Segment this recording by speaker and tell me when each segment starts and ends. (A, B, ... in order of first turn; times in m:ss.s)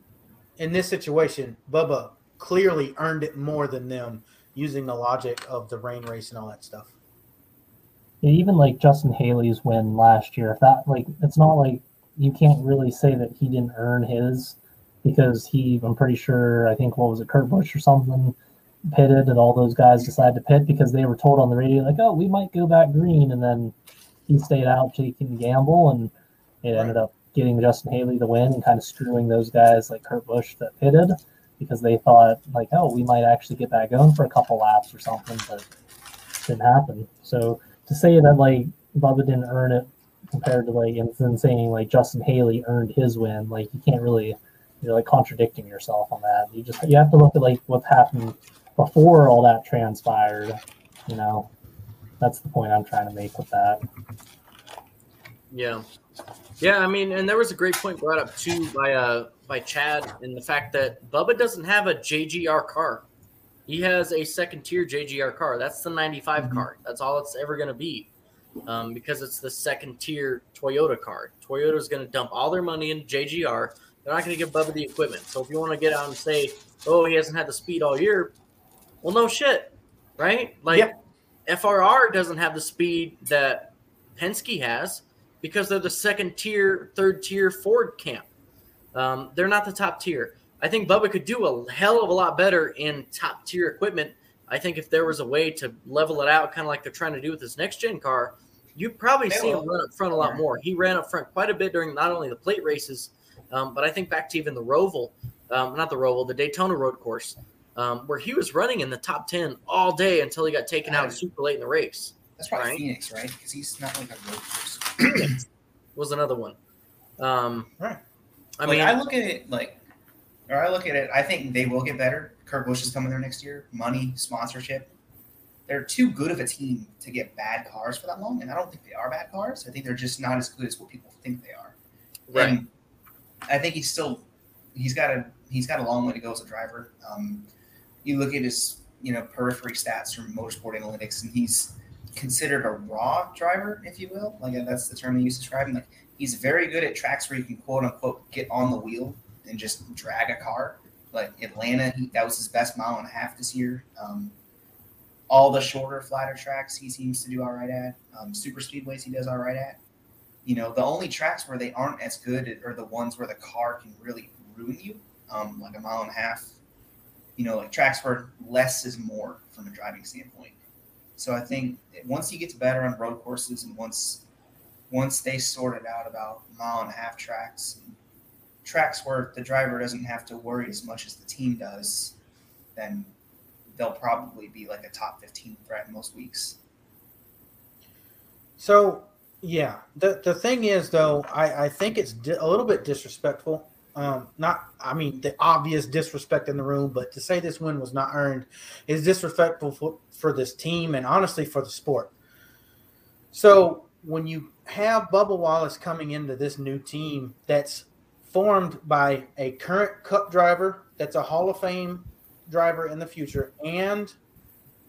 0:00.6-0:06.9 A
0:08.2-0:18.4 B
0:18.9-0:23.7 B
0:24.3-0:26.1 B
0:26.6-0:35.7 B
0:36.4-0:51.5 B
0:52.2-0:53.8 B
0:55.5-0:55.8 C
0:56.6-1:03.0 C
1:03.7-1:08.1 C
1:06.4-1:06.6 D
1:08.7-1:18.3 C
1:19.0-1:20.9 C
1:21.5-1:28.3 C
1:28.9-1:52.8 C
1:39.3-1:40.4 D
1:50.8-1:51.2 D
1:52.4-1:55.4 D
1:55.0-1:55.4 C
1:56.0-1:56.6 C
1:57.2-1:57.7 C
1:58.6-1:59.0 C
1:58.6-1:59.8 D
2:00.5-2:04.9 D
2:05.7-2:11.7 D
2:12.3-2:12.6 C
2:12.3-2:12.7 D
2:13.5-2:17.4 D
2:18.0-2:34.3 D
2:35.3-2:39.8 D
2:40.4-2:46.5 D
2:47.4-2:50.6 D
2:51.2-2:54.2 D
2:54.9-2:57.9 D
2:58.6-3:02.2 D
3:02.8-3:03.1 D
3:03.7-3:06.6 D
3:08.6-3:22.1 A
3:23.3-3:34.2 A